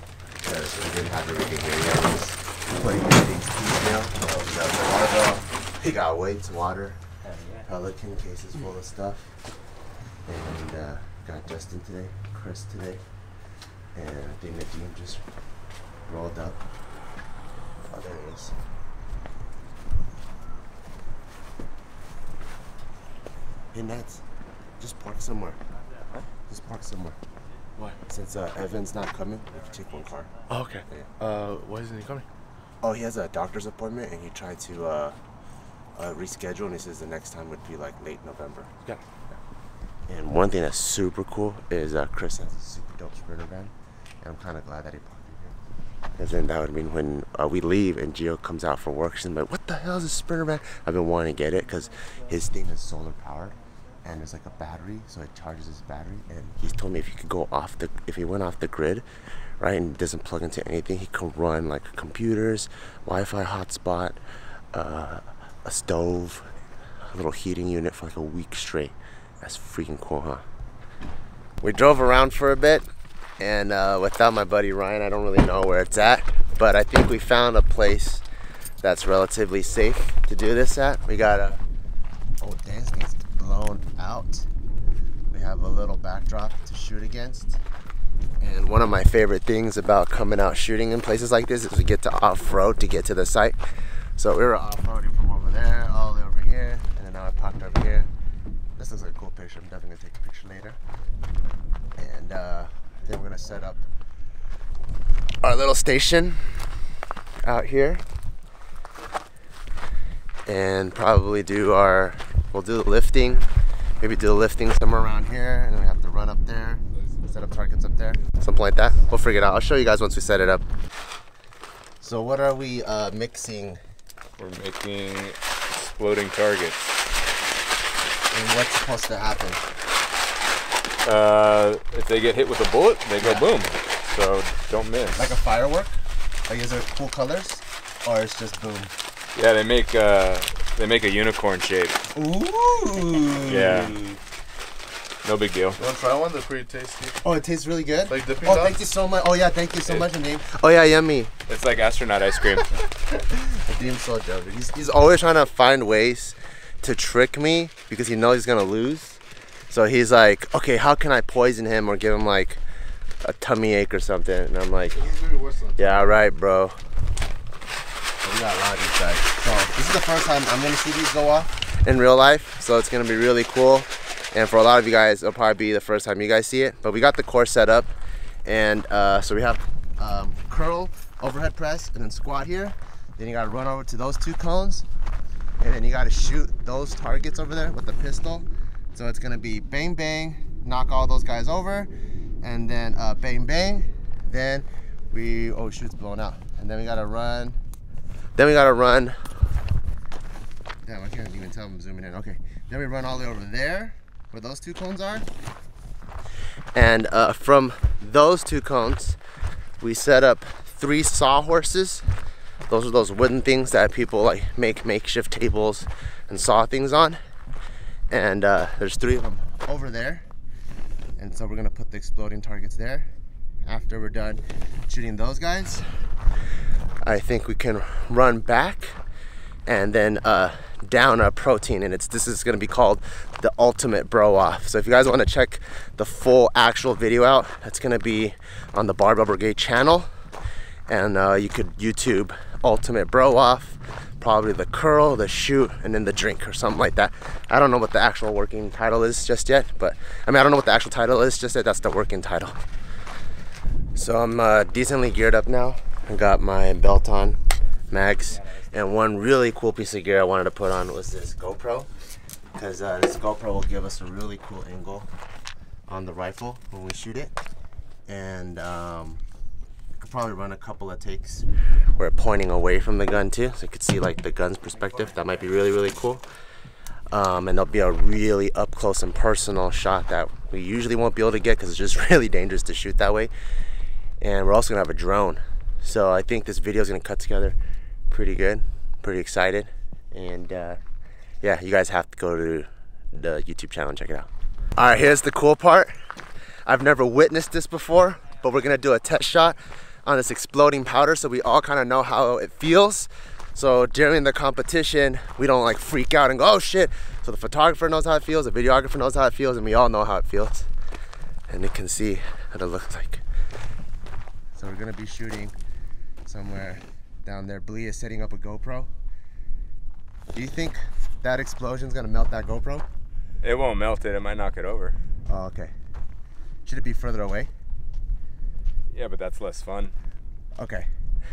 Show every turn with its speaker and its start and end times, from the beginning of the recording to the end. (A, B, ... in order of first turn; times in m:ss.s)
0:00.4-0:07.0 A
0:07.6-0:09.3 A
0:10.3-0:13.0 A
0:14.0-0:15.2 A
0:16.1-0:16.6 A
0:17.9-0:18.6 A
0:23.7-0:24.2 A
0:24.8-0:25.6 A
0:26.5-0:27.2 A
0:27.8-0:31.3 A
0:32.8-0:35.2 A
0:36.0-0:39.0 A
0:40.1-0:45.6 A
0:46.2-0:59.0 A
0:59.6-1:04.2 A
1:04.7-1:06.5 A
1:07.1-1:10.4 A
1:11.6-1:12.9 A
1:13.4-1:18.2 A
1:18.8-1:21.6 A
1:22.4-1:24.5 A
1:25.3-1:27.6 A
1:28.4-1:33.6 A
1:34.2-1:38.1 A
1:38.8-1:40.8 A
1:42.0-1:43.8 A
1:45.4-1:46.5 A
1:47.4-1:48.0 A
1:50.5-1:53.5 A
1:54.0-2:00.6 A
2:02.0-2:03.8 A
2:04.4-2:07.0 B
2:08.3-2:09.6 A
2:11.0-2:15.3 B
2:13.2-2:13.5 A
2:15.2-2:16.0 A
2:16.5-2:18.9 A
2:19.4-2:22.0 B
2:22.2-2:23.9 A
2:23.5-2:24.0 B
2:25.2-2:25.8 B
2:25.8-2:27.2 C
2:27.2-2:31.3 A
2:28.1-2:28.8 C
2:31.5-2:32.7 B
2:32.9-2:42.6 A
2:43.2-2:45.0 A
2:45.0-2:46.2 C
2:45.8-2:46.8 A
2:48.2-2:57.9 A
2:58.4-3:04.9 A
3:05.6-3:11.9 A
3:12.4-3:17.6 A
3:18.4-3:19.2 A
3:20.8-3:25.3 A
3:26.7-3:29.2 A
3:29.8-3:32.0 A
3:32.7-3:37.2 A
3:38.1-3:40.2 A
3:41.2-3:43.1 A
3:43.6-3:45.9 A
3:47.0-3:49.0 A
3:49.7-4:00.1 A
4:00.9-4:12.6 A
4:14.0-4:17.4 A
4:17.9-4:21.9 A
4:22.6-4:25.1 A
4:25.9-4:27.3 A
4:28.1-4:29.2 A
4:30.0-4:36.2 A
4:37.1-4:43.3 A
4:44.2-4:47.6 A
4:48.1-4:50.8 A
4:51.4-4:55.9 A
4:56.7-5:10.7 A
5:11.5-5:13.2 A
5:14.6-5:15.6 A
5:16.3-5:18.9 A
5:20.3-5:22.9 A
5:23.4-5:25.0 B
5:25.3-5:25.7 A
5:26.6-5:27.5 A
5:28.9-5:29.9 B
5:30.6-5:30.9 A